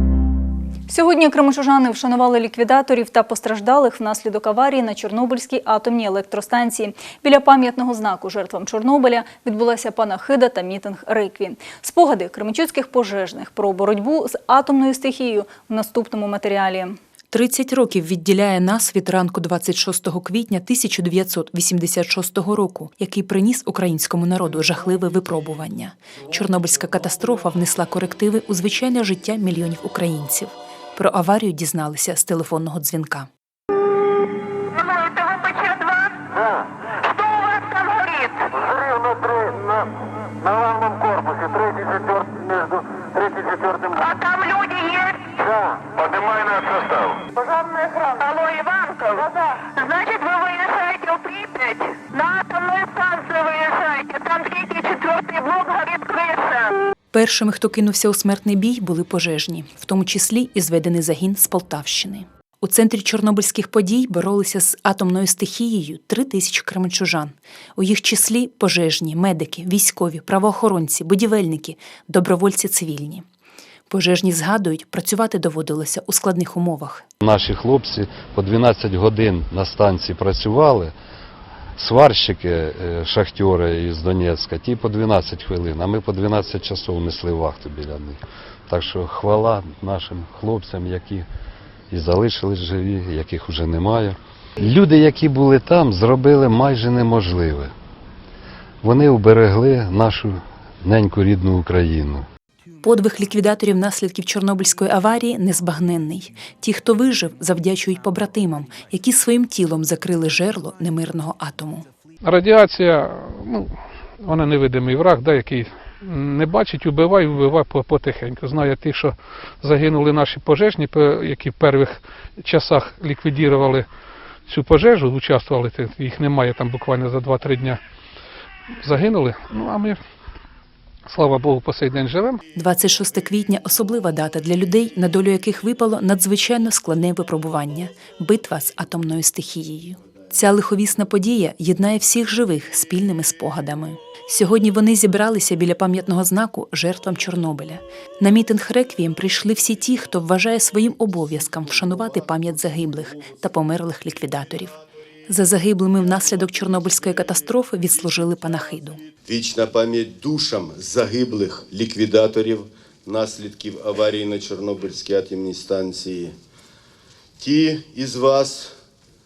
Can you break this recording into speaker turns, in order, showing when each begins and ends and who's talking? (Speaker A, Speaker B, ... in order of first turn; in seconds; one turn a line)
Speaker A: 0.9-17.0
Speaker B: 17.3-33.3
Speaker C: 35.1-35.8
Speaker C: 37.3-38.3
Speaker C: 43.9-45.2
Speaker C: 48.0-49.2
Speaker C: 49.8-56.7
Speaker B: 57.1-73.2
Speaker B: 73.9-77.0
Speaker D: 77.2-80.9
Speaker D: 81.8-91.3
Speaker D: 91.9-97.7
Speaker D: 98.8-102.3
Speaker B: 102.8-111.8
Speaker C: 112.2-123.9
Speaker C: 124.5-127.8
Speaker C: 128.8-130.0
Speaker C: 131.1-132.4
Speaker B: 132.6-154.8
Speaker B: 155.3-159.0
Speaker E: 159.3-166.3
Speaker E: 167.4-168.7